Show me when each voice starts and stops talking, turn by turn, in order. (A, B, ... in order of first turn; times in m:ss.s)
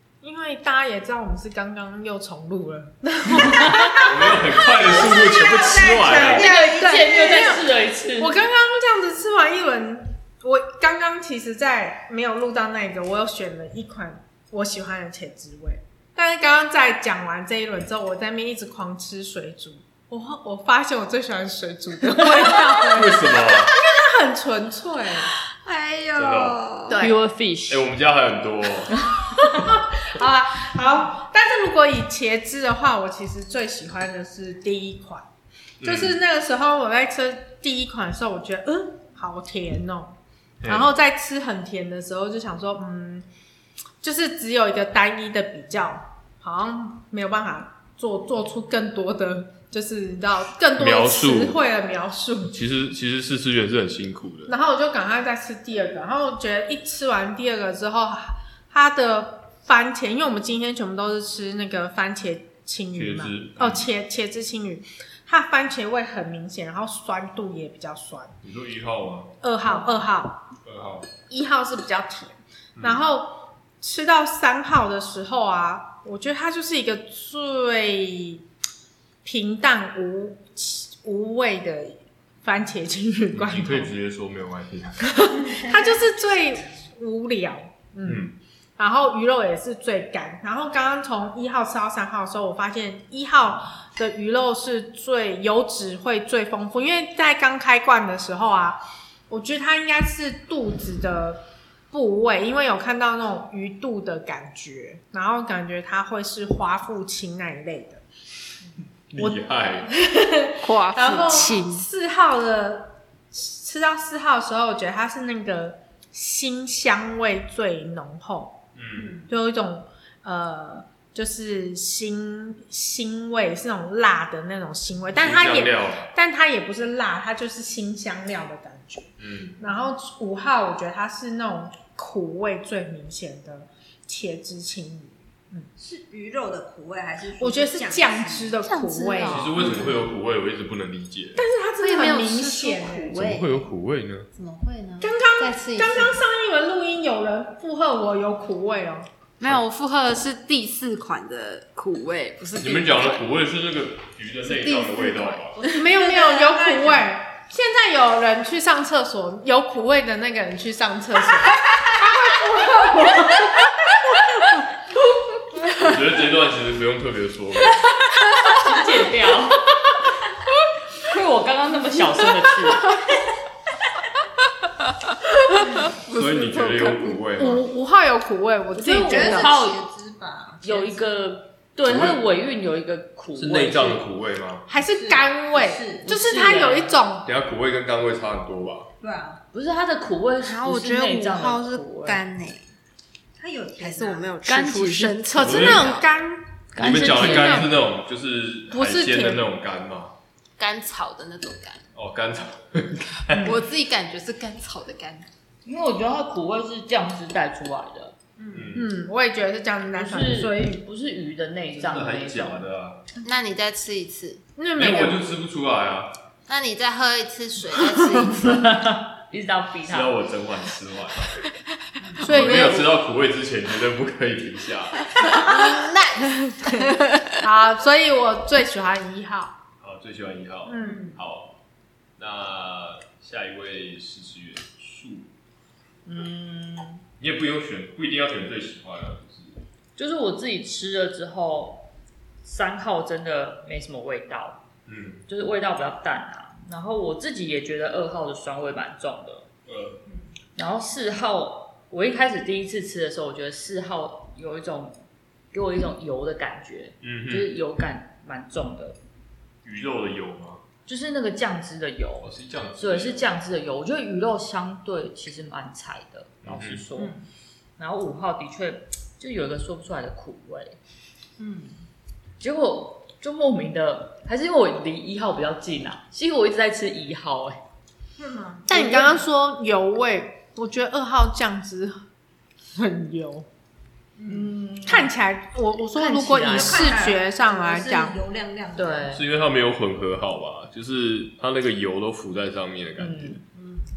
0:00.2-0:25.3 A
0:03.4-0:03.7 B
0:04.0-0:06.5 C
0:04.9-0:07.6 D
0:06.1-0:08.4 B
0:22.9-0:23.7 C
0:25.5-0:27.0 E
0:26.1-0:26.7 C
0:26.9-0:27.8 B
0:27.7-0:29.0 C
0:29.3-0:35.3 A
0:35.8-0:36.2 C
0:35.8-0:40.1 A
0:40.6-0:40.9 C
0:40.6-0:43.3 A
0:44.0-0:52.6 A
0:50.8-0:51.6 C
0:52.5-0:54.5 C
0:54.5-1:08.3 A
1:02.9-1:03.9 C
1:08.4-1:09.3 C
1:09.4-1:10.5 A
1:10.6-1:11.1 C
1:11.3-1:18.4 A
1:12.8-1:13.0 C
1:19.2-1:23.9 A
1:23.3-1:25.4 C
1:25.1-1:48.0 A
1:28.0-1:28.3 C
1:49.1-1:49.9 C
1:49.2-1:58.6 A
1:50.6-1:51.9 E
1:58.7-1:59.2 C
1:59.0-1:59.2 D
1:59.2-2:15.7 A
2:05.2-2:06.1 C
2:09.2-2:09.6 C
2:15.8-2:18.6 D
2:17.4-2:19.9 A
2:18.6-2:19.8 E
2:19.3-2:21.4 C
2:21.4-2:23.2 A
2:21.8-2:23.6 E
2:23.1-2:24.3 C
2:24.3-2:26.2 E
2:25.0-2:29.1 A
2:29.4-2:33.3 E
2:32.6-2:35.6 C
2:34.4-2:35.8 E
2:35.6-2:41.8 A
2:35.8-2:37.1 D
2:42.4-2:43.2 A
2:45.8-2:47.9 C
2:48.1-2:48.7 E
2:48.5-2:49.8 B
2:51.0-2:53.0 B
2:54.9-2:57.3 E
2:56.1-2:57.6 C
2:57.4-2:59.5 A
2:58.7-2:59.8 B
2:59.0-3:01.0 D
3:00.6-3:04.0 B
3:01.8-3:02.2 C
3:03.4-3:04.7 C
3:04.7-3:07.3 A
3:04.8-3:06.1 D
3:06.0-3:07.0 B
3:07.2-3:08.9 C
3:09.0-3:09.4 D
3:09.5-3:12.2 B
3:10.4-3:12.7 E
3:13.4-3:14.4 D
3:13.8-3:16.1 E
3:14.4-3:15.2 B
3:15.3-3:17.6 A
3:15.4-3:15.9 C
3:16.7-3:17.7 B
3:16.8-3:20.2 C
3:18.7-3:19.4 A
3:20.6-3:21.8 E
3:21.9-3:23.5 C
3:23.3-3:25.2 E
3:25.6-3:28.2 B
3:28.4-3:30.8 A
3:28.5-3:28.9 C
3:29.9-3:32.6 B
3:31.7-3:33.1 C
3:33.2-3:34.4 E
3:34.6-3:35.2 A
3:34.8-3:36.2 C
3:36.5-3:38.6 E
3:38.1-3:40.2 B
3:39.8-3:41.4 C
3:42.2-3:42.9 A
3:42.2-3:45.2 C
3:45.3-3:47.4 E
3:47.4-3:49.6 A
3:49.8-3:51.6 C
3:50.6-3:51.1 A
3:50.8-3:51.1 D
3:52.2-3:55.3 C
3:56.0-3:57.0 B
3:57.2-3:59.6 C
4:00.0-4:01.9 B
4:02.4-4:04.6 B
4:04.9-4:05.2 C
4:05.3-4:09.5 B
4:09.7-4:10.0 C
4:10.6-4:15.0 B
4:15.5-4:19.0 B
4:17.0-4:17.5 C
4:19.6-4:20.6 C
4:20.8-4:27.2 B
4:22.2-4:23.3 C
4:26.4-4:26.8 C
4:27.0-4:27.2 D
4:27.8-4:30.8 B
4:31.4-4:31.8 D
4:32.4-4:37.6 B
4:38.2-4:38.8 D
4:38.7-4:42.0 A
4:38.7-4:39.2 B
4:42.7-4:43.5 A
4:44.2-4:45.0 D
4:44.3-4:45.1 B
4:44.8-4:48.2 A
4:45.9-4:47.0 B
4:46.5-4:49.2 D
4:48.8-4:49.2 B
4:49.1-4:53.4 C
4:53.0-4:53.4 B
4:53.5-4:53.8 D